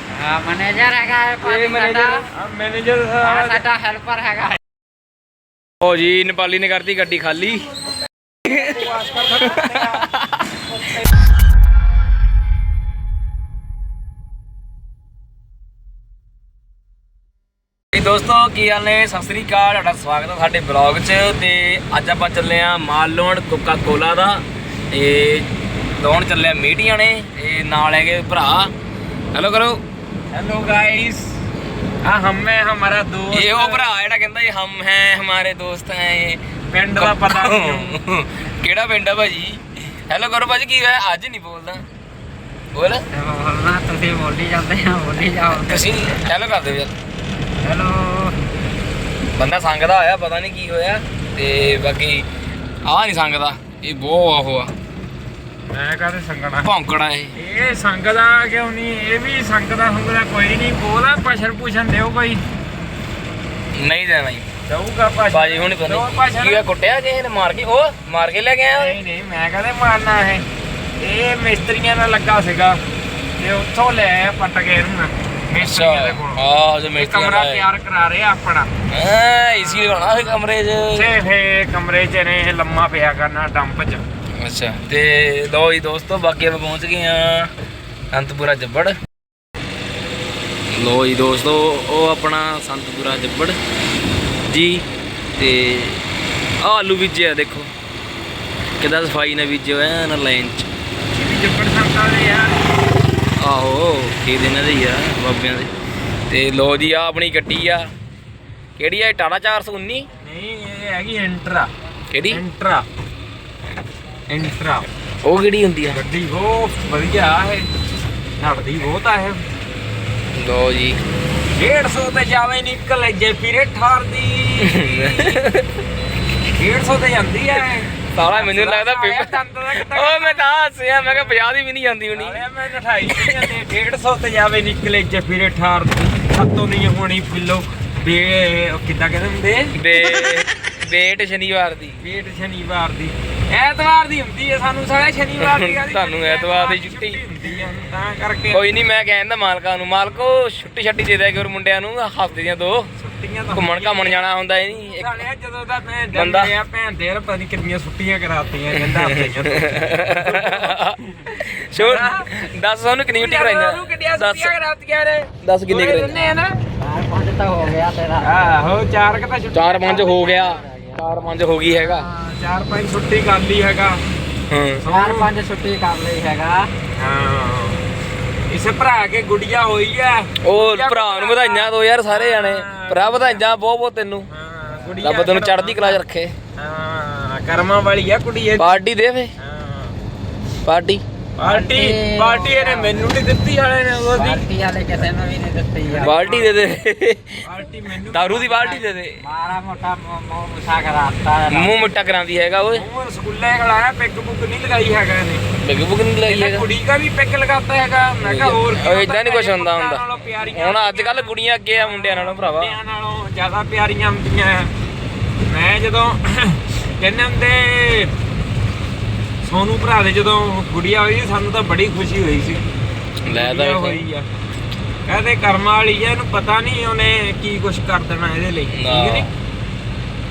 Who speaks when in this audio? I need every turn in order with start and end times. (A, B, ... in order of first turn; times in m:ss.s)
0:00.1-0:02.2 A
0:01.4-0:02.2 B
0:02.3-0:03.6 C
0:03.2-0:04.6 A
0:05.8-0:07.6 B
0:08.4-0:10.6 B
0:08.5-0:10.0 C
0:17.9-0:28.7 B
0:29.3-0:29.8 B
0:30.3-0:31.3 C
0:32.0-0:33.9 C
0:33.3-0:36.4 B
0:36.7-0:38.0 C
0:37.0-0:41.8 B
0:42.7-0:43.0 B
0:43.1-0:46.0 A
0:45.5-0:46.9 B
0:47.6-0:48.4 A
0:49.4-0:52.3 B
0:52.8-0:54.7 B
0:55.7-0:56.7 C
0:56.6-0:57.3 B
0:57.4-1:02.4 C
1:03.8-1:04.5 B
1:04.6-1:06.7 C
1:05.3-1:09.0 B
1:08.7-1:10.4 C
1:11.0-1:12.8 C
1:13.4-1:18.7 C
1:15.6-1:17.7 B
1:18.9-1:21.1 B
1:19.5-1:24.0 C
1:24.4-1:27.5 B
1:28.1-1:28.9 B
1:30.7-1:33.6 B
1:34.5-1:34.8 B
1:35.4-1:36.0 B
1:36.6-1:37.7 B
1:38.8-1:40.7 B
1:41.1-1:42.6 C
1:43.4-1:45.7 B
1:46.3-1:47.9 B
1:48.8-1:50.1 B
1:50.2-1:51.7 C
1:52.1-1:52.4 B
1:52.3-1:52.8 C
1:54.3-1:54.9 C
1:55.2-1:56.0 B
1:55.9-1:57.7 C
1:58.4-1:59.4 C
2:00.4-2:01.0 B
2:01.5-2:05.4 C
2:04.6-2:05.8 B
2:06.5-2:10.4 C
2:07.9-2:12.4 B
2:11.0-2:11.4 C
2:12.1-2:20.1 C
2:13.1-2:13.5 B
2:19.8-2:22.0 B
2:22.0-2:28.7 C
2:25.4-2:27.2 B
2:28.5-2:32.9 B
2:30.1-2:30.4 C
2:33.0-2:42.3 C
2:33.5-2:35.2 B
2:36.1-2:36.6 B
2:38.7-2:44.5 B
2:43.1-2:46.6 C
2:45.4-2:46.2 B
2:46.8-2:48.6 A
2:48.2-2:50.4 C
2:49.5-2:52.1 B
2:50.0-2:51.1 A
2:51.6-2:54.0 C
2:54.5-2:54.8 B
2:54.8-2:55.3 C
2:54.9-2:56.7 A
2:57.0-2:57.8 C
2:58.5-3:03.5 C
3:00.4-3:04.3 B
3:04.3-3:06.0 C
3:05.0-3:06.3 B
3:06.6-3:08.8 C
3:08.6-3:09.3 B
3:09.4-3:09.9 C
3:10.6-3:11.0 B
3:11.4-3:14.4 C
3:11.4-3:13.1 A
3:14.1-3:16.2 A
3:16.0-3:16.6 C
3:16.0-3:17.4 B
3:17.4-3:18.8 C
3:18.1-3:19.2 B
3:19.2-3:21.9 A
3:21.5-3:22.8 B
3:22.7-3:25.4 C
3:25.6-3:26.7 B
3:26.2-3:34.7 C
3:28.2-3:32.8 B
3:35.4-3:38.1 C
3:39.4-3:42.6 C
3:43.2-3:44.1 B
3:43.3-3:44.2 C
3:45.0-3:49.3 C
3:48.7-3:49.3 B